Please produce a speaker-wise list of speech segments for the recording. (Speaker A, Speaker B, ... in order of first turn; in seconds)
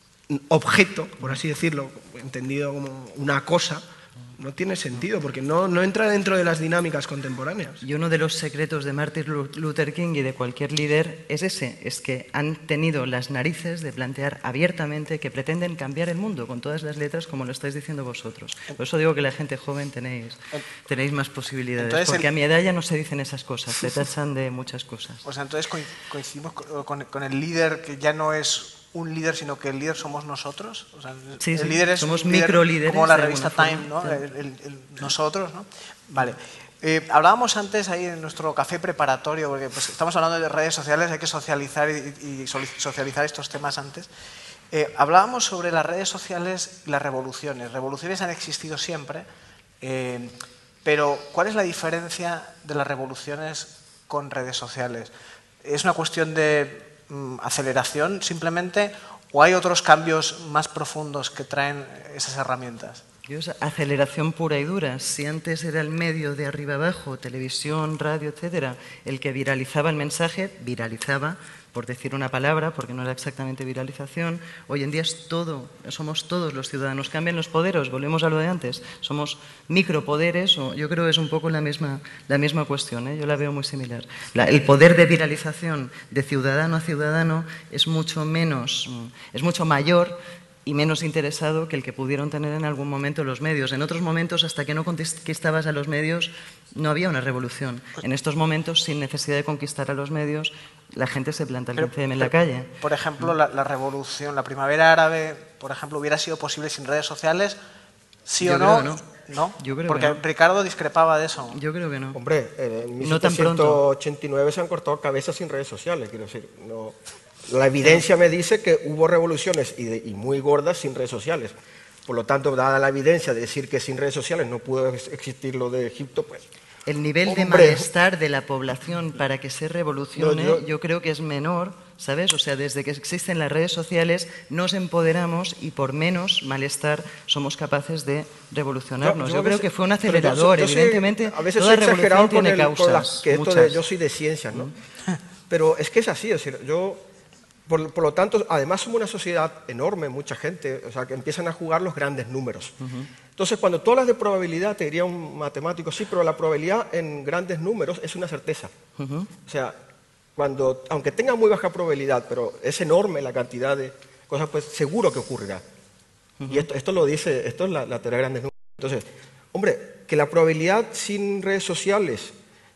Speaker A: 0.3-3.8, 4.4-7.8
Speaker B: 7.8-25.2, 31.4-34.2, 63.3-102.7, 108.4-109.1, 109.6-110.2, 111.5-112.2, 113.0-113.8, 126.9-143.8, 152.8-153.1, 159.0-159.3, 166.4-166.7
Speaker C: 21.8-22.3, 25.2-44.1, 44.7-49.3, 49.8-55.1, 55.6-63.0, 101.8-107.6, 108.3-111.6
Speaker D: 112.1-117.0, 117.5-121.5, 122.1-126.5, 127.3-127.9, 130.2-130.6, 139.0-144.7, 145.5-147.0, 147.7-152.8, 153.4-158.7, 159.5-159.8, 160.4-165.6, 166.5-172.3